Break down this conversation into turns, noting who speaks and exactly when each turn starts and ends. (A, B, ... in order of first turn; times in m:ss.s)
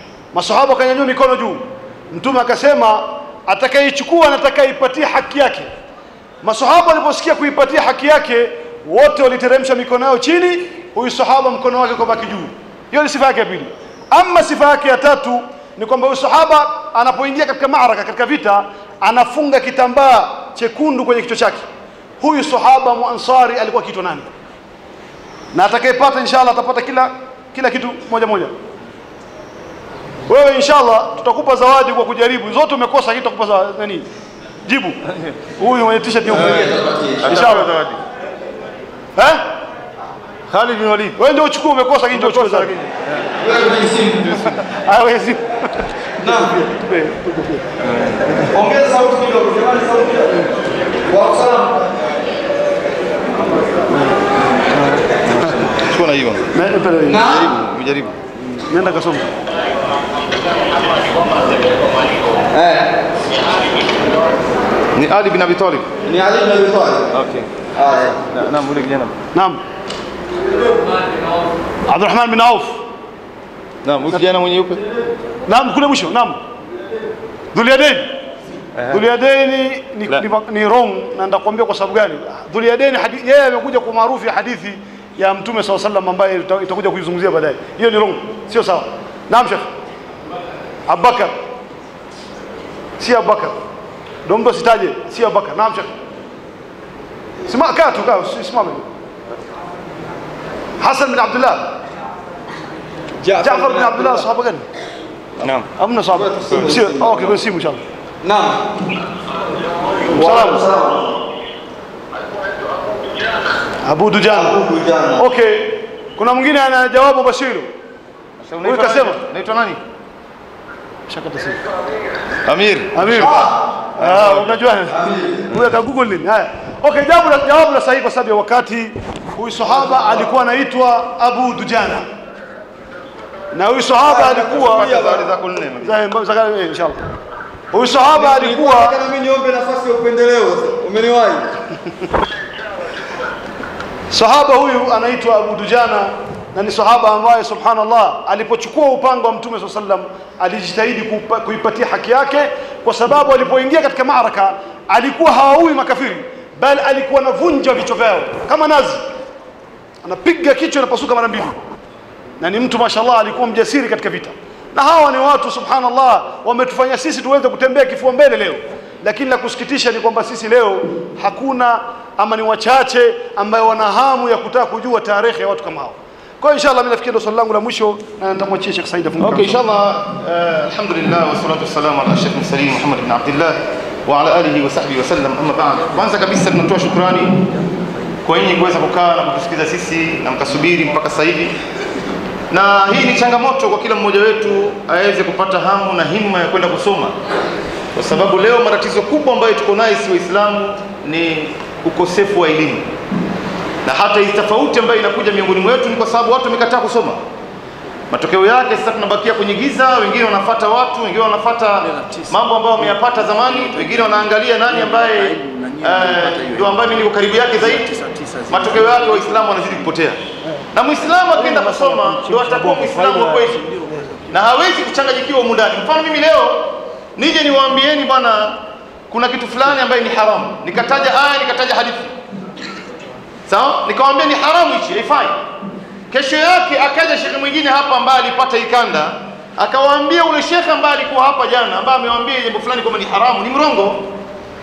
0:00.3-0:05.7 A
0:06.4-0:21.6 A
0:22.2-0:24.3 A
0:25.5-0:28.5 A
0:30.3-0:34.1 A
0:34.6-0:35.0 A
0:35.1-0:35.4 B
0:35.6-0:36.7 A
0:36.3-0:37.4 C
0:36.3-0:38.0 B
0:37.2-0:37.7 A
0:39.2-0:39.4 A
0:40.5-0:41.2 B
0:41.2-0:42.7 A
0:42.1-0:43.3 B
0:43.4-0:44.6 C
0:44.8-0:47.6 A
0:46.2-0:46.5 C
0:48.5-0:50.5 C
0:51.1-0:51.8 C
0:54.8-0:55.0 A
0:55.3-0:56.5 B
0:56.5-0:57.2 A
0:57.0-0:57.6 C
0:57.2-0:58.2 B
0:58.6-0:59.3 A
1:02.5-1:03.0 C
1:04.9-1:05.9 B
1:06.0-1:07.2 C
1:07.1-1:09.2 B
1:07.7-1:08.2 C
1:09.3-1:09.6 A
1:11.9-1:12.8 A
1:13.8-1:14.8 B
1:15.5-1:16.4 A
1:17.5-1:18.1 A
1:18.8-1:19.0 B
1:18.9-1:29.7 A
1:30.9-1:31.3 A
1:33.0-1:33.6 A
1:34.2-1:35.9 A
1:37.5-1:38.9 A
1:40.8-1:41.7 A
1:43.2-1:44.2 C
1:43.4-1:44.6 A
1:45.4-1:45.7 B
1:45.8-1:47.8 A
1:46.1-1:47.4 C
1:48.2-1:48.6 C
1:50.1-1:51.2 C
1:50.1-1:50.6 A
1:53.8-1:54.6 A
1:54.3-1:55.2 C
1:55.2-1:57.7 A
1:58.4-1:59.8 B
1:58.6-1:59.2 A
2:01.1-2:01.6 A
2:02.4-2:04.6 B
2:02.9-2:12.0 A
2:03.2-2:03.6 C
2:04.9-2:05.5 C
2:09.8-2:10.2 C
2:13.5-2:15.0 A
2:14.0-2:15.2 C
2:14.4-2:16.0 B
2:15.8-2:17.0 A
2:17.7-2:19.0 A
2:18.1-2:21.5 C
2:24.1-2:39.0 A
2:40.0-2:41.6 A
2:42.4-2:59.6 A
2:59.2-3:07.4 B
3:08.2-3:11.6 B
3:12.5-3:17.2 B
3:17.9-3:22.9 B
3:23.8-3:27.2 B
3:28.1-3:40.2 B
3:40.7-3:43.6 B
3:41.3-3:44.2 A
3:44.3-3:52.1 B
3:53.5-3:55.4 B
3:56.1-4:04.1 B